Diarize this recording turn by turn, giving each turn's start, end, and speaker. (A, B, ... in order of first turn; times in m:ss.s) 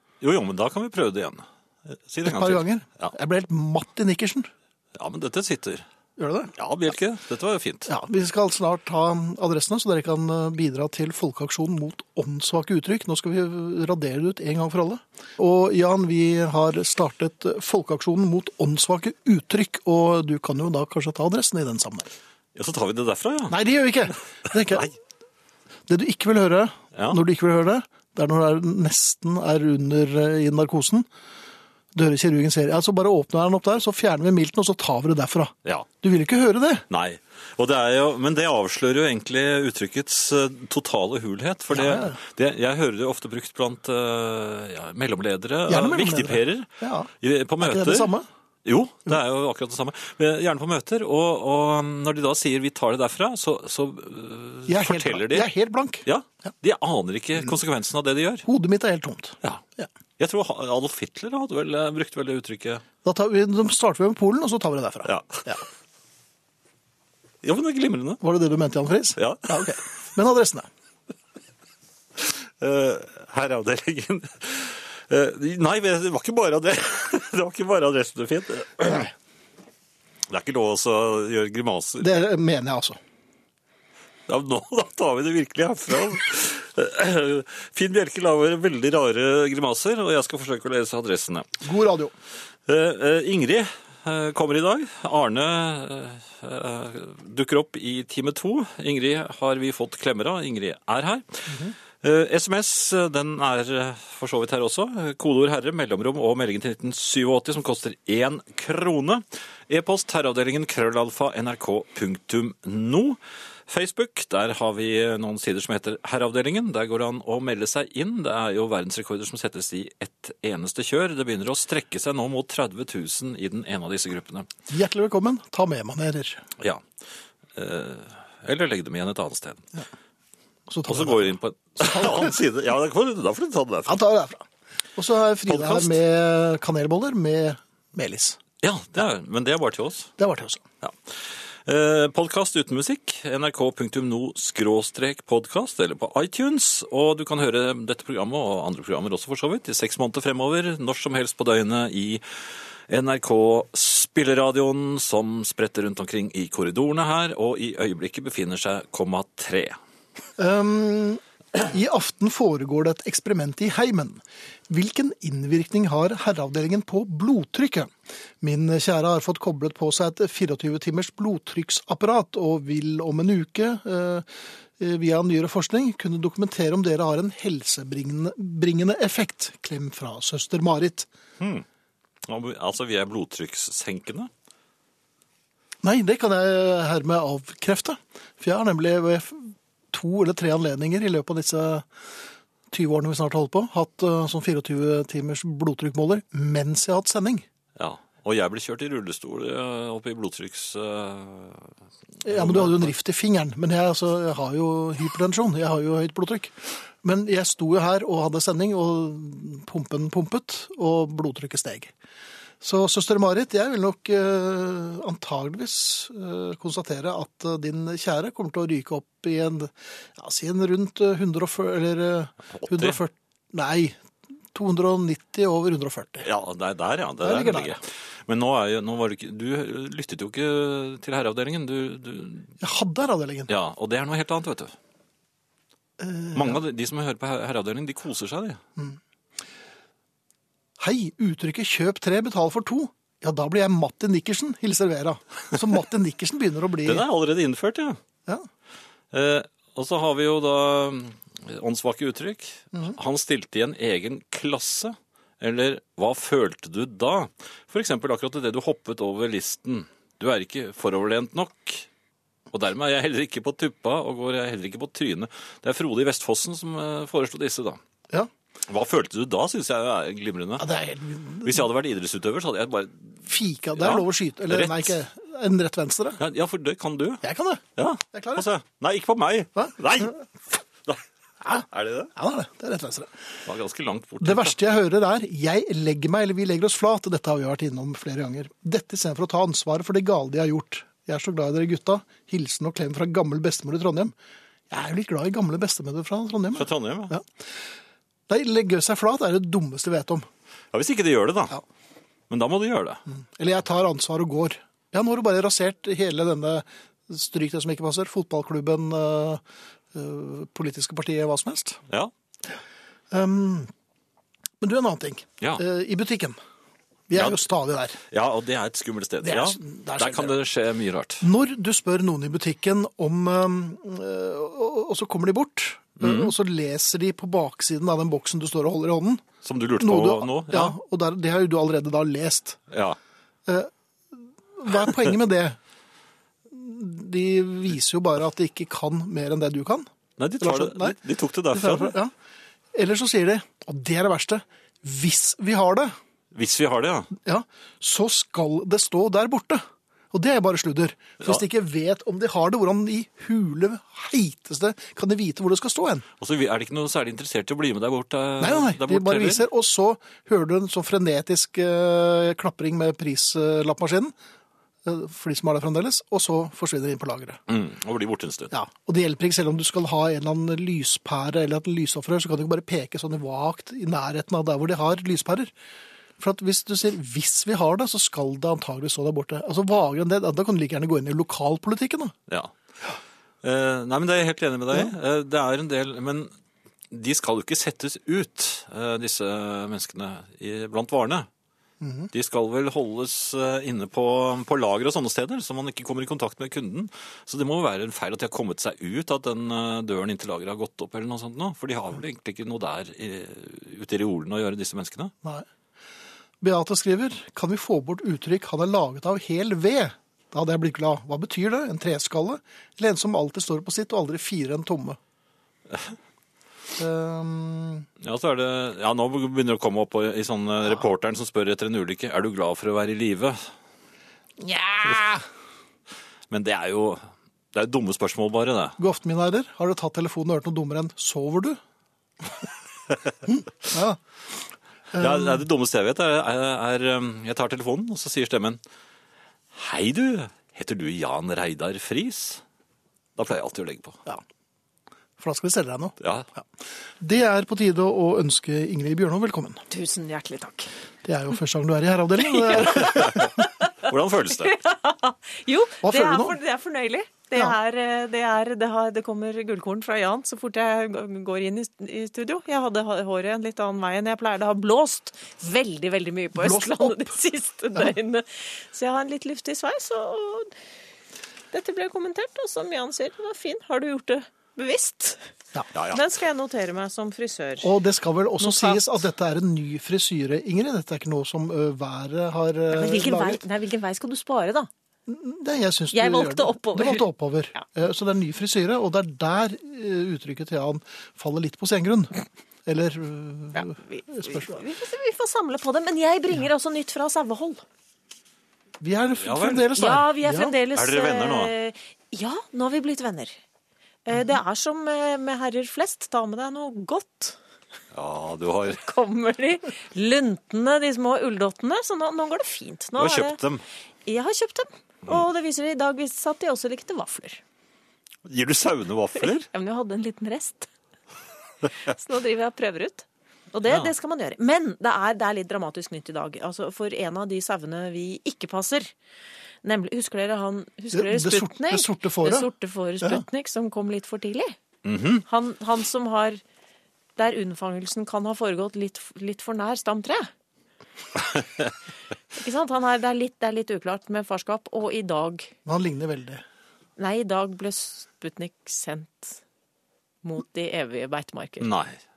0:00.2-0:03.1 A
0:02.2-0:04.5 B
0:05.0-0:05.9 A
0:06.2-0:06.5 B
0:06.5-0:07.9 A
0:07.9-0:22.1 B
0:22.6-0:23.6 A
0:23.5-0:24.9 B
0:24.7-0:24.9 A
0:25.9-0:31.1 B
0:32.0-0:36.8 B
0:36.9-0:46.7 A
0:41.7-0:42.2 B
0:45.7-0:48.3 B
0:47.2-0:48.1 A
0:48.6-0:55.5 A
0:54.7-0:56.1 B
0:56.0-0:58.5 A
0:58.5-0:59.9 B
1:00.2-1:02.8 A
1:03.0-1:05.6 B
1:05.0-1:05.5 A
1:07.4-1:08.2 A
1:08.2-1:10.7 B
1:09.2-1:09.5 A
1:12.2-1:19.1 A
1:20.3-1:22.2 A
1:22.0-1:23.0 B
1:24.3-1:31.6 A
1:31.6-1:32.1 B
1:32.7-2:04.5 A
1:41.5-1:41.8 B
2:04.7-2:06.5 B
2:06.6-2:06.8 A
2:07.6-2:09.6 A
2:10.7-2:12.4 B
2:10.9-2:14.0 A
2:13.9-2:14.4 B
2:15.0-2:18.4 B
2:15.5-2:16.0 A
2:18.6-2:20.1 A
2:20.2-2:20.6 B
2:20.8-2:39.8 A
2:40.4-2:54.3 B
2:54.8-3:01.1 B
3:01.4-3:01.6 A
3:02.2-3:04.3 A
3:05.8-3:11.9 B
3:12.7-3:17.4 B
3:17.8-3:21.7 A
3:22.2-3:31.9 B
3:22.3-3:22.9 A
3:32.6-3:44.0 B
3:42.6-3:43.0 A
3:44.5-3:46.3 B
3:46.2-3:52.5 A
3:47.2-3:47.8 B
3:52.6-3:53.5 B
3:53.5-3:54.8 A
3:56.0-3:56.6 B
3:56.3-3:58.6 A
4:00.8-4:07.0 B
4:06.8-4:08.0 A
4:09.1-4:21.9 A
4:22.5-4:27.8 A
4:28.7-4:30.7 A
4:30.6-4:31.6 B
4:31.4-4:33.2 A
4:33.2-4:36.2 B
4:33.8-4:35.0 A
4:36.2-4:37.2 A
4:37.2-4:38.4 B
4:37.8-4:40.2 A
4:41.4-4:43.1 B
4:41.7-4:42.1 A
4:43.5-4:44.6 A
4:44.2-4:54.1 B
4:54.7-4:57.2 B
4:56.5-4:57.2 A
4:58.3-5:00.3 B
5:00.7-5:01.6 A
5:02.3-5:03.0 A
5:03.1-5:09.4 B
5:09.9-5:11.8 B
5:13.1-5:13.7 B
5:14.6-5:16.4 B
5:17.1-5:18.0 B
5:17.2-5:17.4 A
5:18.1-5:21.2 A
5:19.2-5:20.4 B
5:21.2-5:29.2 B
5:26.0-5:26.3 A
5:29.4-5:30.8 A
5:29.8-5:32.6 B
5:32.7-5:33.0 A
5:34.6-5:35.6 B
5:36.5-5:39.9 B
5:40.2-5:42.0 A
5:40.4-5:41.0 B
5:41.5-5:42.1 B
5:42.7-5:46.0 B
5:46.3-5:47.1 A
5:47.2-5:56.0 B
5:56.2-5:59.4 A
5:58.4-6:04.1 B
6:04.8-6:07.4 B
6:07.5-6:08.5 A
6:08.5-6:15.5 B
6:16.2-6:22.2 B
6:22.3-6:22.5 A
6:23.4-6:26.3 A
6:26.9-6:31.3 A
6:31.8-6:32.1 B
6:32.1-6:45.1 A
6:46.4-6:55.0 B
6:55.7-6:56.0 A
6:56.8-6:57.9 B
6:58.0-7:03.5 A
7:04.4-7:05.2 B
7:06.3-7:08.8 A
7:08.8-7:11.6 B
7:13.3-7:14.0 B
7:14.9-7:15.4 B
7:15.0-7:18.6 A
7:19.5-7:22.4 A
7:23.2-7:24.0 A
7:25.2-7:26.4 B
7:26.0-7:26.3 A
7:27.0-7:29.6 B
7:29.7-7:30.7 C
7:31.0-7:33.3 B
7:32.5-7:33.4 C
7:32.8-7:33.3 A
7:33.8-7:34.6 A
7:34.4-7:50.5 C
7:35.8-7:36.4 B
7:46.4-7:47.2 B
7:51.5-7:55.3 C
7:55.7-7:56.0 A
7:55.9-7:57.7 C
7:57.6-8:03.4 B
7:58.4-7:58.8 C
8:02.7-8:04.7 C
8:05.1-8:12.1 B
8:05.9-8:07.0 C
8:12.7-8:14.6 B
8:13.6-8:17.6 C
8:18.8-8:20.5 B
8:19.2-8:19.9 A
8:19.8-8:23.4 C
8:20.7-8:21.5 A
8:24.1-8:27.4 C
8:27.9-8:28.8 A
8:28.7-8:33.4 C
8:33.0-8:33.6 A
8:34.1-8:37.4 C
8:38.2-8:39.5 A
8:39.5-8:40.7 C
8:41.8-8:48.9 C
8:49.6-8:54.6 C
8:50.9-8:52.5 B
8:54.8-8:55.2 A
8:55.3-8:56.4 C
8:57.2-9:00.3 C
9:01.3-9:01.6 A
9:02.4-9:05.5 C
9:05.7-9:06.4 B
9:07.0-9:09.4 C
9:10.2-9:11.7 C
9:11.6-9:12.0 A